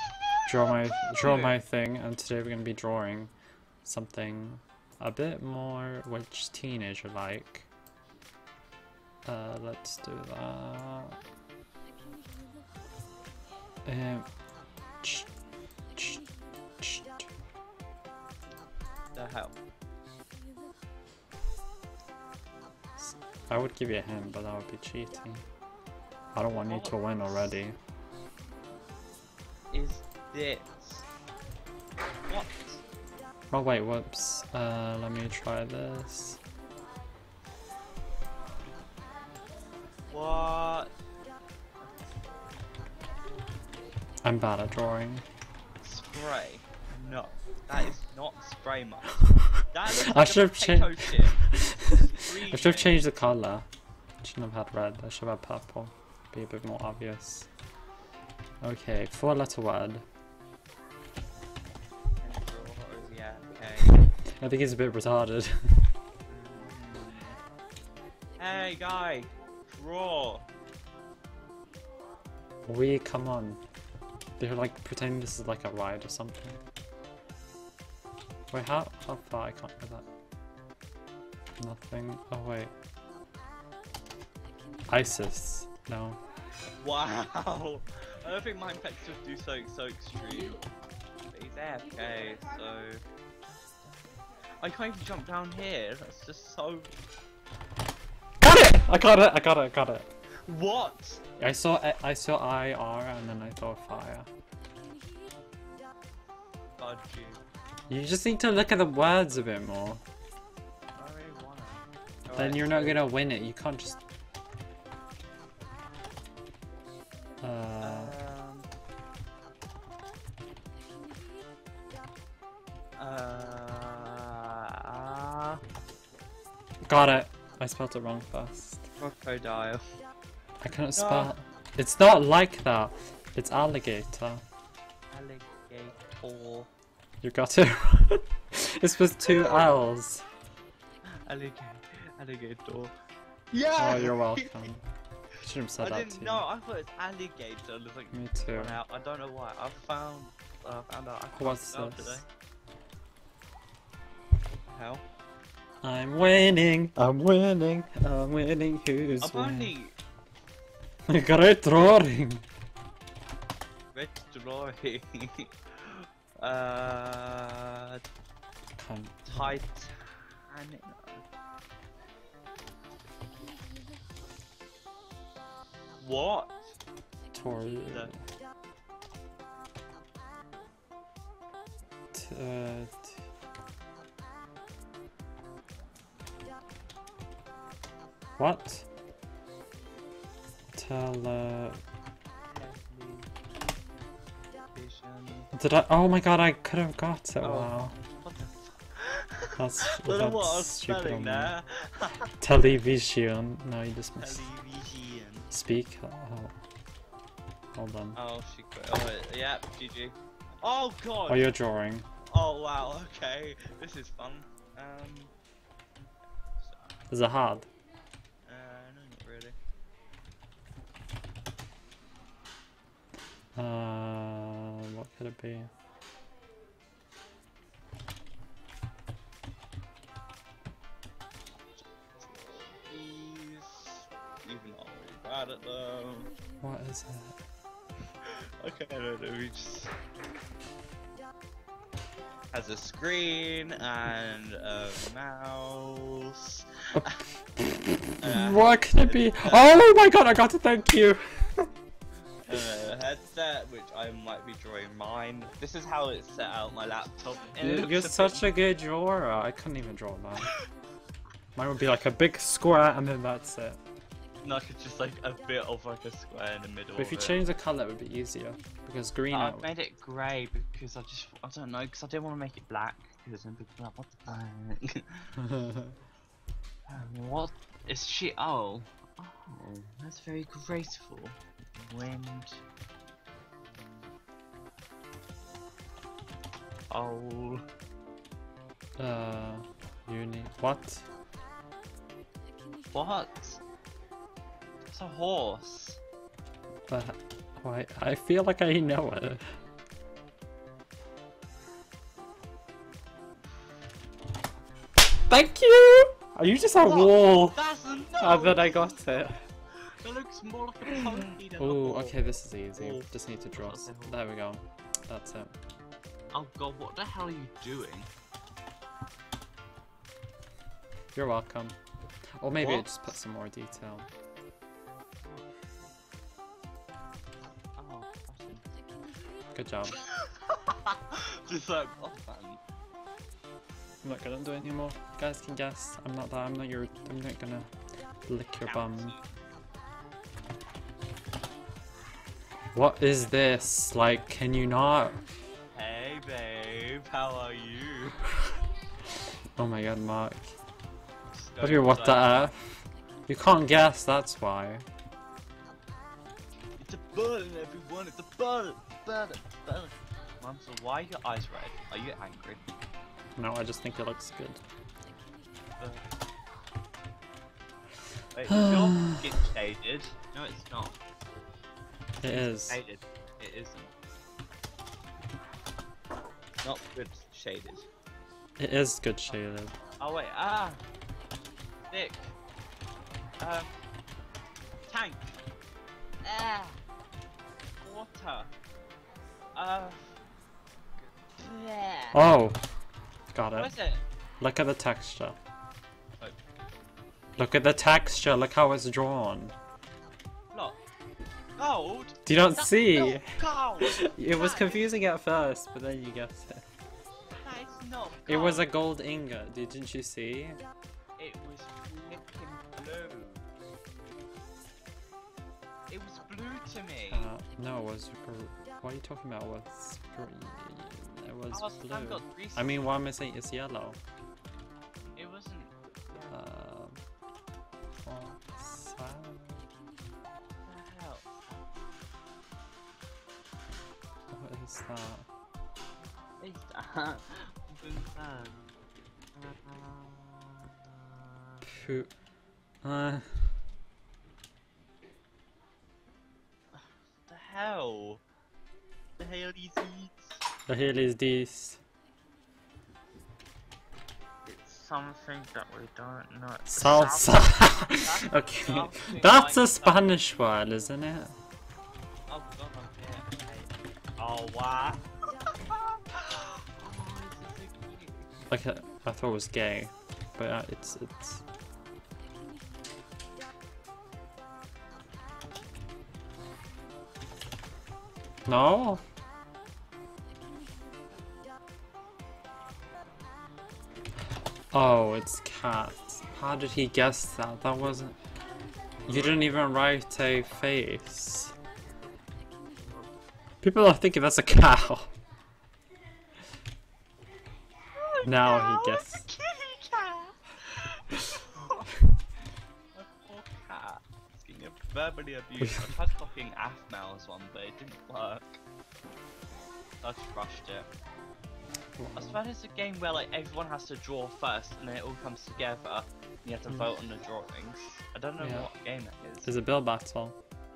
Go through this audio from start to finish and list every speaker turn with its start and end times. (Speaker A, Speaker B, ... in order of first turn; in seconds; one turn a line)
Speaker A: 0.1-0.5
Speaker B: 0.5-3.3
Speaker A: 1.2-1.6
Speaker B: 3.8-7.7
Speaker B: 9.2-11.2
Speaker B: 13.9-14.3
Speaker B: 16.0-16.2
Speaker B: 16.8-17.3
Speaker A: 19.1-19.6
Speaker B: 23.0-25.4
Speaker B: 26.3-27.8
Speaker A: 26.4-27.6
Speaker A: 29.7-31.1
Speaker A: 32.3-32.8
Speaker B: 33.5-36.4
Speaker A: 40.1-40.9
Speaker B: 44.2-45.2
Speaker A: 45.8-49.1
Speaker A: 49.7-53.0
Speaker B: 49.9-52.0
Speaker B: 52.5-53.7
Speaker B: 54.2-57.5
Speaker B: 58.6-60.0
Speaker A: 62.2-64.0
Speaker B: 64.4-65.9
Speaker A: 66.3-67.4
Speaker A: 68.4-70.5
Speaker B: 72.7-73.6
Speaker B: 74.4-76.6
Speaker B: 78.5-80.1
Speaker B: 81.6-82.7
Speaker B: 84.9-86.2
Speaker A: 86.8-90.6
Speaker A: 91.3-94.1
Speaker A: 94.6-96.9
Speaker B: 98.4-100.1
Speaker A: 100.5-101.2
Speaker B: 101.4-104.3
Speaker A: 106.8-107.4
Speaker B: 107.9-110.0
Speaker A: 111.0-113.0
Speaker B: 112.3-114.0
Speaker B: 117.4-118.2
Speaker A: 117.8-118.7
Speaker A: 123.0-125.6
Speaker B: 126.9-128.9
Speaker A: 129.0-129.8
Speaker B: 130.6-134.4
Speaker A: 130.9-131.3
Speaker A: 135.1-136.7
Speaker B: 137.2-140.2
Speaker A: 139.2-139.8
Speaker A: 141.2-142.9
Speaker A: 143.5-144.7
Speaker B: 143.8-144.8
Speaker B: 145.4-146.4
Speaker A: 145.8-152.2
Speaker B: 148.1-148.8
Speaker B: 151.3-152.2
Speaker A: 154.6-155.0
Speaker B: 155.8-159.7
Speaker A: 159.2-160.0
Speaker B: 161.1-162.4
Speaker A: 163.9-168.0
Speaker B: 168.8-169.6
Speaker A: 169.3-171.2
Speaker A: 176.0-176.6
Speaker B: 177.3-178.2
Speaker A: 177.9-178.1
Speaker B: 182.1-183.2
Speaker B: 188.4-188.9
Speaker B: 190.7-191.8
Speaker A: 192.5-193.3
Speaker A: 194.7-195.5
Speaker B: 195.5-197.9
Speaker A: 197.4-202.3
Speaker B: 199.6-201.5
Speaker B: 202.4-204.5
Speaker A: 204.2-205.5
Speaker B: 205.5-206.6
Speaker B: 207.8-208.2
Speaker A: 208.2-211.5
Speaker B: 211.3-212.1
Speaker A: 212.3-215.3
Speaker A: 216.6-217.0
Speaker B: 217.1-217.7
Speaker A: 218.4-219.6
Speaker B: 223.6-225.7
Speaker A: 232.2-236.3
Speaker B: 236.6-237.4
Speaker A: 238.2-239.9
Speaker A: 242.5-247.2
Speaker B: 246.9-251.7
Speaker A: 248.2-249.7
Speaker A: 252.5-258.4
Speaker B: 257.6-260.5
Speaker B: 261.6-263.8
Speaker A: 264.4-267.4
Speaker B: 267.0-269.7
Speaker A: 269.3-275.4
Speaker B: 275.5-275.9
Speaker A: 276.9-282.6
Speaker A: 286.9-287.6
Speaker B: 289.0-291.1
Speaker A: 292.9-293.6
Speaker A: 294.9-296.0
Speaker B: 296.9-299.5
Speaker B: 305.3-307.6
Speaker A: 306.8-309.0
Speaker B: 308.2-309.4
Speaker A: 309.8-312.2
Speaker B: 311.6-315.6
Speaker A: 312.8-314.2
Speaker A: 316.3-318.1
Speaker B: 321.1-321.8
Speaker B: 322.4-324.1
Speaker A: 322.6-323.1
Speaker A: 327.8-328.7
Speaker B: 329.6-330.0
Speaker A: 329.9-332.6
Speaker B: 334.0-337.7
Speaker B: 338.3-339.1
Speaker A: 338.7-339.3
Speaker B: 342.7-345.2
Speaker A: 345.8-348.2
Speaker B: 349.6-350.5
Speaker A: 351.3-352.4
Speaker B: 351.6-354.9
Speaker A: 356.8-362.6
Speaker B: 363.4-364.6
Speaker A: 365.8-366.0
Speaker A: 368.3-371.0
Speaker B: 368.5-369.2
Speaker B: 372.2-372.8
Speaker A: 372.2-373.9
Speaker A: 376.6-377.9
Speaker B: 378.6-379.7
Speaker A: 380.0-380.8
Speaker A: 381.9-382.4
Speaker A: 383.4-383.7
Speaker A: 384.9-385.4
Speaker A: 386.2-386.8
Speaker A: 387.8-388.5
Speaker A: 389.6-390.1
Speaker A: 391.3-392.2
Speaker B: 392.1-392.6
Speaker B: 393.3-393.7
Speaker A: 393.5-394.0
Speaker B: 394.4-395.4
Speaker B: 397.4-399.6
Speaker A: 400.5-400.8
Speaker A: 401.6-404.9
Speaker B: 402.3-406.6
Speaker A: 407.4-408.8
Speaker B: 408.3-410.6
Speaker A: 411.2-413.4
Speaker A: 415.9-417.3
Speaker B: 417.1-424.0
Speaker A: 421.5-423.0
Speaker A: 425.2-426.4
Speaker B: 426.3-427.0
Speaker B: 428.0-429.6
Speaker A: 430.6-431.7
Speaker B: 434.3-435.3
Speaker A: 436.4-438.7
Speaker A: 439.4-441.8
Speaker B: 441.7-442.1
Speaker B: 442.8-443.5
Speaker A: 446.7-448.2
Speaker A: 449.2-450.4
Speaker B: 450.7-451.8
Speaker A: 454.5-460.1
Speaker B: 456.7-461.4
Speaker A: 462.3-465.0
Speaker A: 465.7-468.4
Speaker B: 468.5-471.4
Speaker B: 478.5-479.0
Speaker B: 484.7-488.2
Speaker A: 489.0-489.6
Speaker B: 489.1-491.5
Speaker B: 493.6-495.1
Speaker A: 498.0-501.9
Speaker B: 498.2-499.3
Speaker A: 502.9-508.6
Speaker B: 505.6-505.9
Speaker A: 510.0-510.9
Speaker B: 512.0-512.4
Speaker A: 512.1-519.5
Speaker B: 518.4-518.7
Speaker B: 519.4-520.4